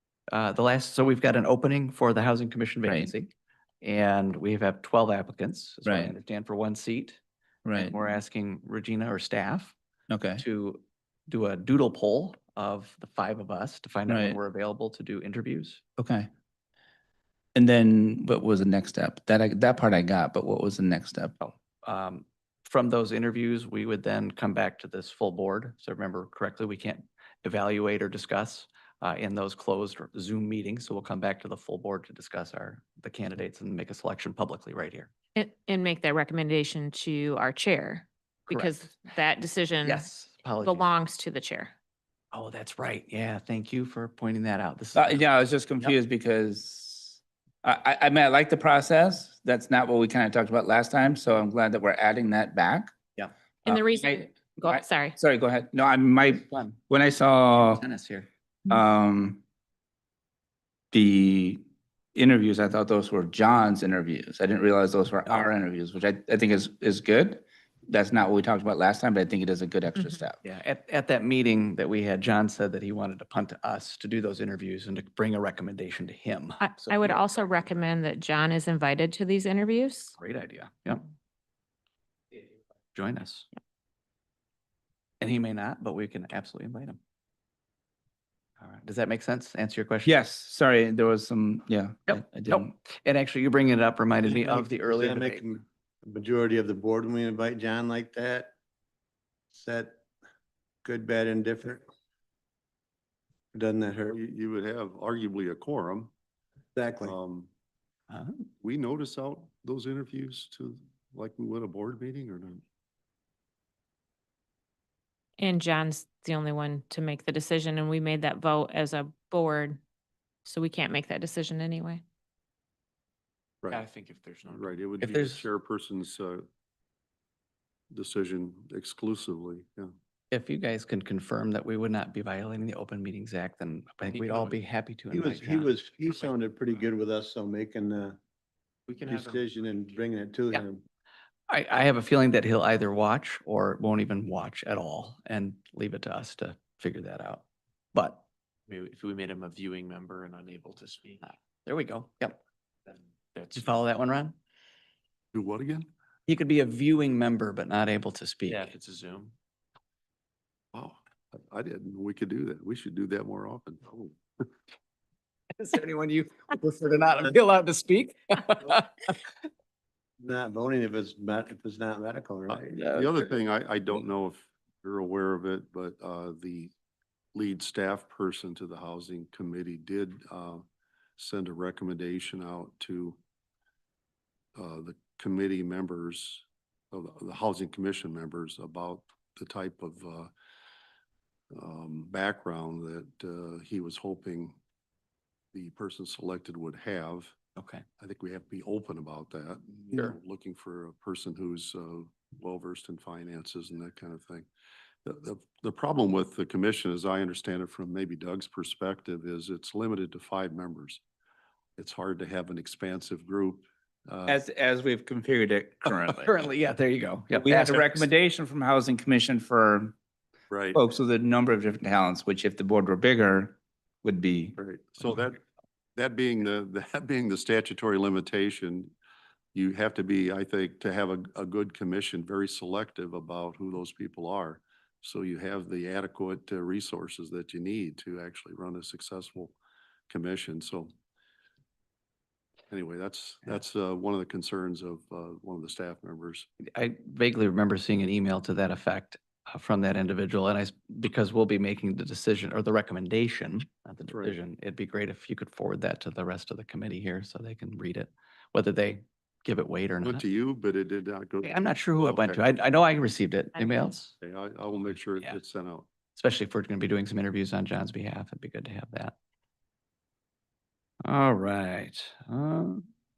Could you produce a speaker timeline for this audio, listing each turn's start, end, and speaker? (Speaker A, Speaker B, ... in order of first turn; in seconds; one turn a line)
Speaker A: 0.3-3.3
Speaker A: 3.8-7.2
Speaker B: 5.8-6.1
Speaker B: 7.6-7.9
Speaker A: 7.7-9.7
Speaker B: 10.1-10.4
Speaker A: 10.4-15.8
Speaker B: 14.1-14.4
Speaker B: 16.0-16.3
Speaker B: 17.5-21.4
Speaker A: 21.4-35.1
Speaker C: 35.4-40.1
Speaker A: 38.5-38.9
Speaker A: 39.8-40.9
Speaker C: 40.6-41.7
Speaker A: 42.3-45.3
Speaker B: 45.0-52.9
Speaker C: 53.6-55.2
Speaker B: 53.7-57.8
Speaker A: 56.5-56.7
Speaker A: 57.5-58.3
Speaker B: 58.7-59.4
Speaker B: 60.9-61.6
Speaker B: 62.1-70.4
Speaker A: 70.4-77.2
Speaker C: 76.6-80.2
Speaker A: 80.2-81.0
Speaker A: 82.9-83.5
Speaker A: 85.2-87.0
Speaker A: 88.6-90.1
Speaker B: 90.0-92.7
Speaker A: 92.1-95.4
Speaker D: 94.3-98.5
Speaker D: 99.5-100.0
Speaker D: 100.8-101.8
Speaker D: 103.5-104.2
Speaker E: 104.1-106.1
Speaker D: 106.7-107.1
Speaker E: 107.0-107.5
Speaker E: 108.6-112.6
Speaker C: 115.4-119.8
Speaker C: 120.4-122.0
Speaker F: 123.7-124.7
Speaker E: 124.4-126.5
Speaker A: 125.0-125.4
Speaker E: 127.9-129.9
Speaker A: 130.3-135.7
Speaker F: 134.1-134.5
Speaker D: 135.1-138.2
Speaker F: 138.9-139.4
Speaker D: 139.0-140.8
Speaker A: 141.5-148.2
Speaker F: 148.7-151.3
Speaker A: 151.7-152.4
Speaker F: 153.3-153.7
Speaker A: 153.5-154.3
Speaker E: 155.3-155.9
Speaker A: 156.3-158.7
Speaker F: 158.5-159.3
Speaker E: 160.7-164.0
Speaker A: 165.6-169.2
Speaker D: 170.2-172.9
Speaker E: 172.5-176.7
Speaker E: 177.3-180.6
Speaker E: 181.2-183.2
Speaker E: 184.6-190.3
Speaker E: 191.5-194.6
Speaker E: 195.5-197.3
Speaker A: 197.6-197.8
Speaker E: 198.0-204.5
Speaker E: 205.0-211.0
Speaker E: 211.8-214.4
Speaker B: 214.3-216.3
Speaker A: 215.9-218.1
Speaker B: 217.3-219.9
Speaker E: 220.5-220.8
Speaker B: 220.7-224.6
Speaker E: 224.6-225.4
Speaker E: 225.9-228.9
Speaker E: 229.5-239.5
Speaker E: 240.1-240.9
Speaker E: 242.7-246.5
Speaker A: 246.7-260.2
Speaker E: 254.1-254.3
Speaker E: 260.0-262.4
Speaker A: 261.4-264.1
Speaker E: 264.2-265.9
Speaker A: 266.1-269.1
Speaker A: 271.0-272.9